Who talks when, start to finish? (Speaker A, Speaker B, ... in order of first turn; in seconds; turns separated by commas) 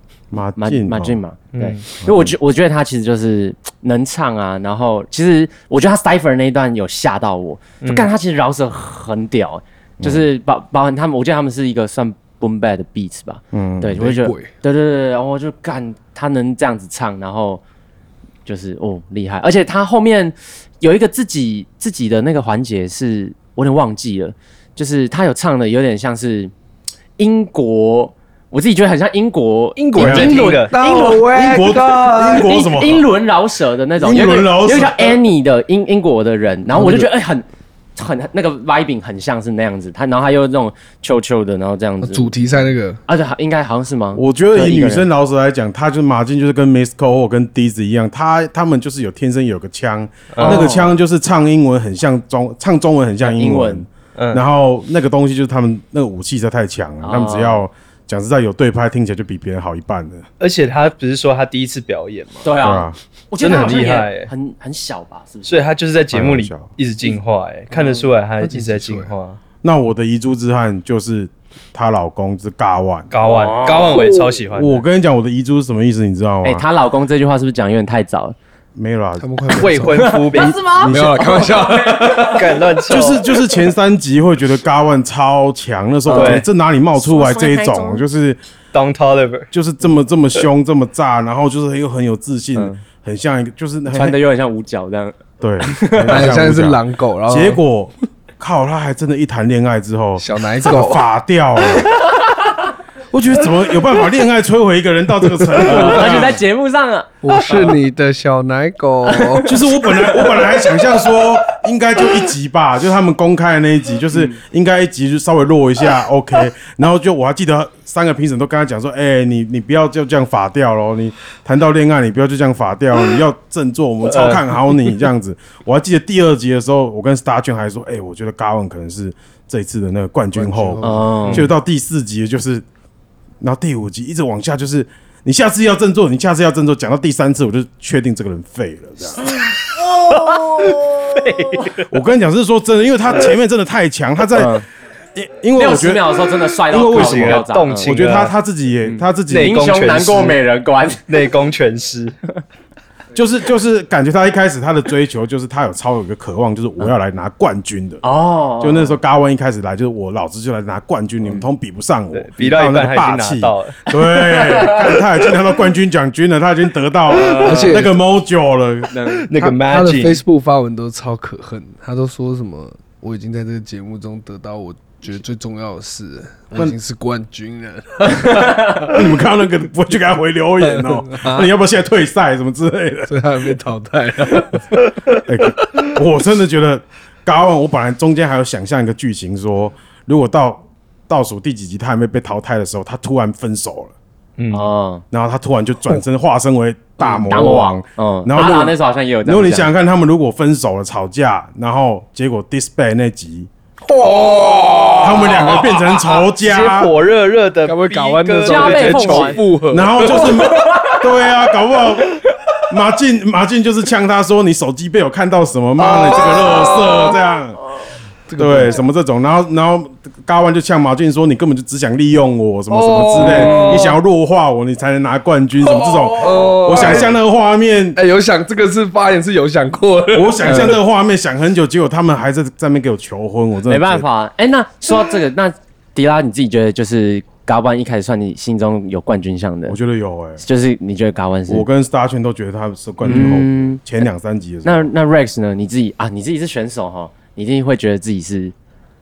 Speaker A: 0.3-1.2, Speaker B: 0.6-17.6, Speaker C: 1.5-1.8, Speaker A: 2.0-2.3, Speaker C: 7.8-8.1, Speaker A: 13.5-14.0, Speaker D: 13.9-14.5, Speaker B: 18.4-26.5, Speaker B: 27.2-31.6, Speaker C: 29.8-30.9, Speaker A: 30.0-30.4, Speaker D: 30.3-32.5, Speaker A: 31.2-33.1, Speaker B: 32.2-37.4, Speaker A: 34.0-35.2, Speaker D: 36.7-37.1, Speaker B: 38.0-42.3, Speaker D: 42.0-43.0, Speaker B: 43.1-45.1, Speaker A: 44.1-60.2, Speaker C: 50.3-50.7, Speaker B: 50.4-51.0, Speaker B: 53.2-53.8, Speaker C: 54.1-54.4, Speaker B: 57.0-57.6, Speaker C: 60.4-62.5, Speaker B: 62.4-65.7, Speaker A: 62.6-63.0, Speaker C: 63.4-64.3, Speaker C: 65.4-69.4, Speaker A: 66.1-66.7, Speaker B: 67.7-68.0, Speaker D: 68.4-69.1, Speaker A: 69.6-73.1, Speaker C: 73.1-74.8, Speaker B: 73.2-74.2, Speaker A: 74.5-76.6, Speaker B: 76.4-78.3, Speaker A: 78.7-79.4, Speaker D: 79.2-82.7, Speaker C: 79.6-80.8, Speaker B: 79.9-82.3, Speaker C: 82.2-83.2, Speaker A: 82.9-88.4, Speaker B: 86.1-88.0, Speaker C: 86.1-86.5, Speaker C: 88.7-89.5, Speaker A: 89.5-94.2, Speaker B: 93.9-96.3, Speaker A: 95.4-101.9, Speaker D: 96.1-97.6, Speaker D: 100.2-101.0, Speaker A: 103.1-106.4, Speaker D: 105.4-106.3, Speaker B: 105.6-107.7, Speaker D: 107.2-109.6, Speaker B: 109.1-110.9, Speaker A: 109.4-132.6, Speaker C: 124.0-125.0, Speaker D: 130.3-131.4, Speaker B: 130.8-131.5, Speaker A: 133.4-139.3, Speaker C: 140.0-141.8, Speaker A: 141.9-144.6, Speaker B: 144.3-144.6, Speaker A: 145.2-149.7, Speaker B: 145.6-147.9, Speaker C: 146.8-148.3, Speaker B: 148.8-151.2, Speaker C: 149.3-150.4, Speaker C: 151.1-152.1, Speaker A: 153.1-158.0, Speaker B: 158.0-159.0, Speaker A: 158.6-169.0, Speaker C: 162.1-163.8, Speaker D: 167.4-168.0, Speaker B: 168.9-169.2, Speaker C: 169.2-170.2, Speaker D: 169.3-179.1, Speaker A: 178.8-183.2, Speaker D: 180.6-181.5, Speaker D: 183.1-184.8, Speaker A: 185.2-193.9, Speaker C: 194.4-194.7, Speaker B: 194.5-195.0, Speaker A: 195.1-203.5, Speaker B: 197.0-199.7, Speaker D: 203.8-205.7, Speaker A: 205.0-206.9, Speaker C: 206.1-209.4, Speaker D: 207.6-210.8, Speaker B: 208.4-209.4, Speaker A: 209.7-217.6, Speaker B: 210.1-211.0, Speaker D: 215.8-217.1, Speaker D: 218.3-218.8, Speaker A: 218.4-228.0, Speaker D: 222.7-223.9, Speaker B: 223.2-223.9, Speaker D: 225.7-227.1, Speaker D: 227.9-230.8, Speaker A: 230.1-234.1, Speaker B: 230.5-230.7, Speaker B: 233.7-239.8, Speaker A: 239.7-240.4, Speaker B: 240.4-241.7, Speaker A: 241.5-244.9, Speaker B: 243.0-243.8, Speaker B: 244.6-248.5